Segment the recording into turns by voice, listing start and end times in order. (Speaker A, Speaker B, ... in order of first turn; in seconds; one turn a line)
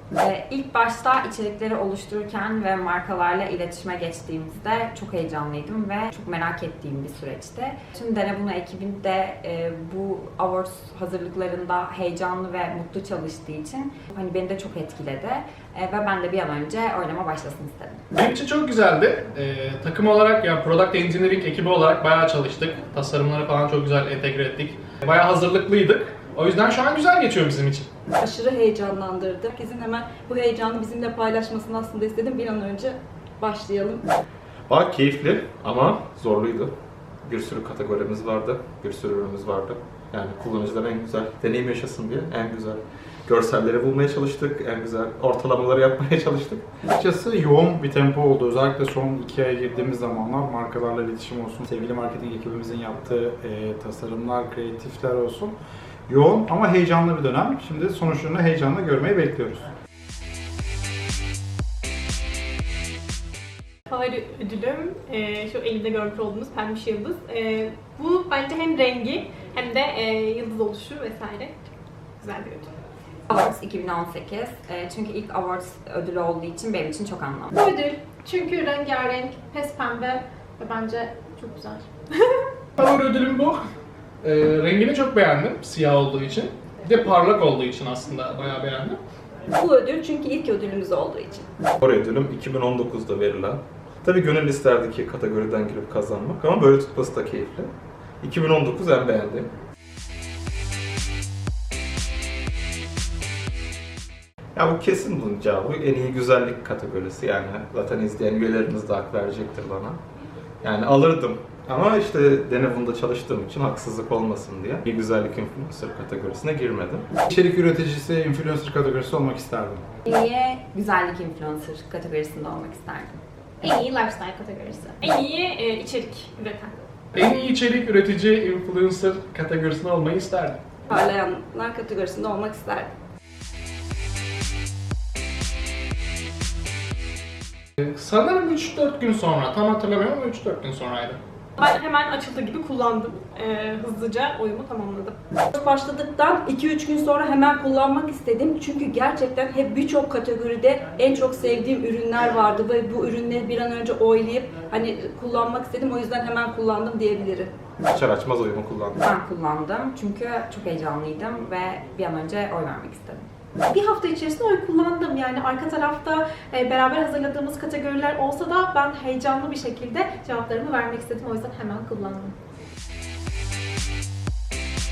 Speaker A: 0.2-18.0
Speaker B: 18.1-27.9
Speaker C: 28.2-34.0
Speaker D: 34.7-36.7
Speaker D: 37.2-46.7
Speaker E: 46.9-55.5
Speaker E: 56.1-59.6
Speaker F: 63.9-71.5
Speaker F: 72.2-72.7
Speaker A: 73.3-77.5
Speaker G: 77.5-82.5
Speaker B: 82.8-83.6
Speaker B: 84.2-89.0
Speaker C: 89.5-91.5
Speaker D: 91.8-97.7
Speaker D: 98.2-99.5
Speaker D: 104.5-110.0
Speaker D: 110.6-117.1
Speaker E: 117.3-119.8
Speaker A: 120.1-123.1
Speaker G: 123.6-125.0
Speaker F: 125.0-126.7
Speaker B: 127.1-130.6
Speaker C: 130.9-132.9
Speaker B: 137.8-141.2
Speaker F: 141.6-145.1
Speaker C: 145.5-157.5
Speaker D: 157.8-159.0
Speaker A: 159.0-163.2
Speaker G: 163.7-172.3